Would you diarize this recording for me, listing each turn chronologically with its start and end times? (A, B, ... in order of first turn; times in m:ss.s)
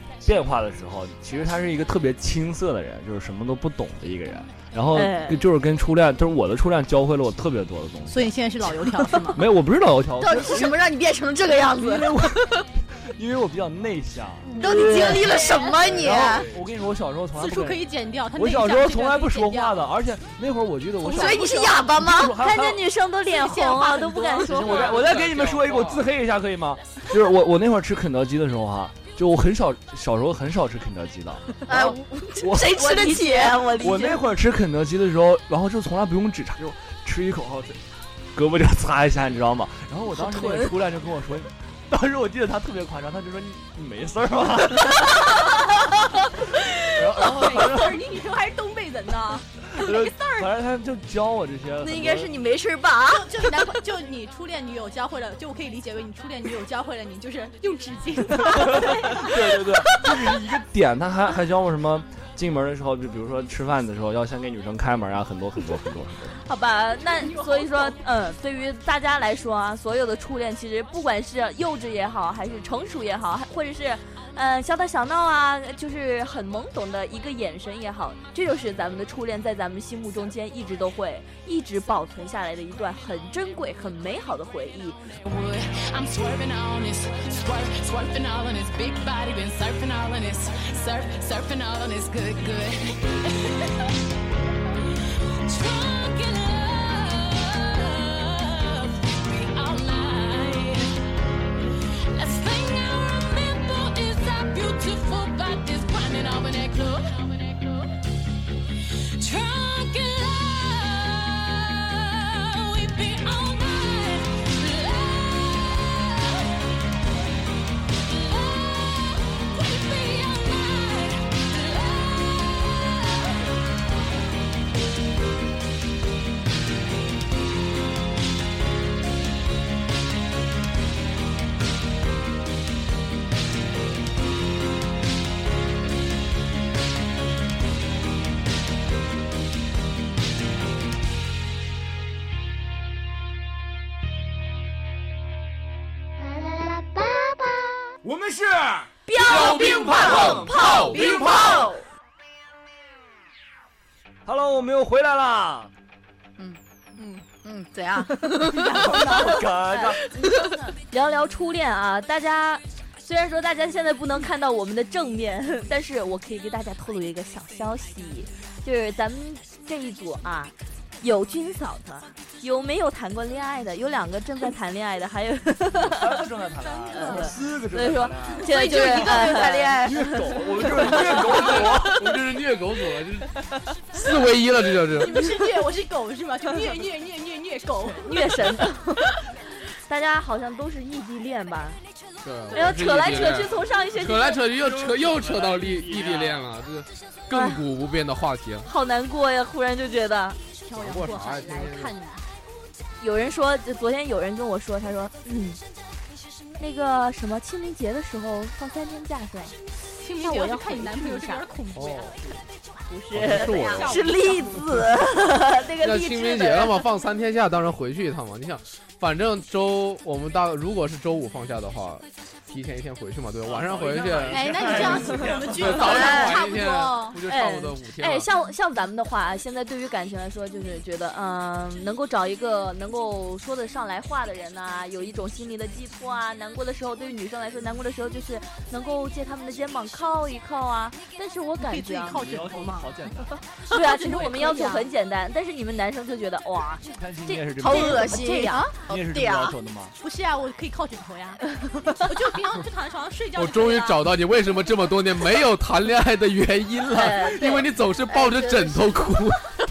0:00.2-0:08.3 A
0:04.9-0:05.4 B
0:08.1-0:09.4 C
0:09.3-0:10.8 A
0:10.2-0:12.6 D
0:11.7-0:22.8 A
0:14.6-0:15.7 B
0:14.6-0:16.5 D
0:15.9-0:16.6 E
0:17.4-0:19.8 C
0:21.0-0:22.4 D
0:22.2-0:24.9 B
0:23.3-0:24.8 C
0:24.4-0:33.1 A
0:24.5-0:26.0 E
0:31.7-0:34.1 D
0:32.6-0:34.2 B
0:33.8-0:37.8 A
0:38.4-0:45.8 A
0:40.2-0:40.7 B
0:46.9-0:48.0 A
0:47.0-0:50.5 C
0:49.7-0:52.3 A
0:51.8-0:53.5 D
0:53.1-0:59.4 C
0:58.4-1:06.4 A
1:06.4-1:25.0 B
1:07.0-1:08.0 C
1:25.2-1:33.9 F
1:35.3-1:41.0 F
1:42.1-1:48.0 F
1:49.2-1:56.3 F
1:58.3-2:02.7 F
2:28.0-2:30.8 A
2:29.1-2:30.1 B
2:29.2-2:31.8 D
2:29.2-2:31.7 E
2:34.3-2:35.7 A
2:37.4-2:39.4 D
2:38.6-2:40.0 A
2:38.7-2:39.0 C
2:39.7-2:56.2 B
2:40.0-2:40.7 D
2:55.7-3:02.0 A
2:56.8-2:57.2 C
2:56.9-3:00.2 B
2:58.4-3:01.3 D
3:00.9-3:01.2 B
3:01.3-3:03.3 E
3:03.9-3:05.2 E
3:05.0-3:08.4 C
3:08.0-3:09.2 B
3:09.9-3:11.8 B
3:12.2-3:18.7 E
3:12.5-3:14.4 B
3:14.5-3:16.4 A
3:17.3-3:17.6 B
3:18.6-3:20.4 B
3:20.6-3:22.2 C
3:20.7-3:22.0 E
3:23.0-3:25.6 B
3:26.6-3:29.6 B
3:30.0-3:32.1 C
3:30.2-3:31.5 B
3:31.7-3:32.4 E
3:32.9-3:36.8 B
3:33.1-3:34.0 E
3:33.3-3:34.6 C
3:33.4-3:33.9 D
3:35.8-3:48.3 E
3:43.4-3:46.0 A
3:44.3-3:47.2 C
3:45.8-3:46.4 D
3:47.3-4:02.2 B
4:01.6-4:02.9 C
4:02.1-4:03.4 A
4:03.7-4:04.9 C
4:03.7-4:08.7 B
4:06.9-4:10.0 A
4:07.6-4:09.6 D
4:08.5-4:08.7 C
4:10.0-4:11.4 C
4:11.6-4:12.1 B
4:12.0-4:14.1 C
4:13.4-4:19.5 E
4:16.9-4:17.7 B
4:18.1-4:19.1 D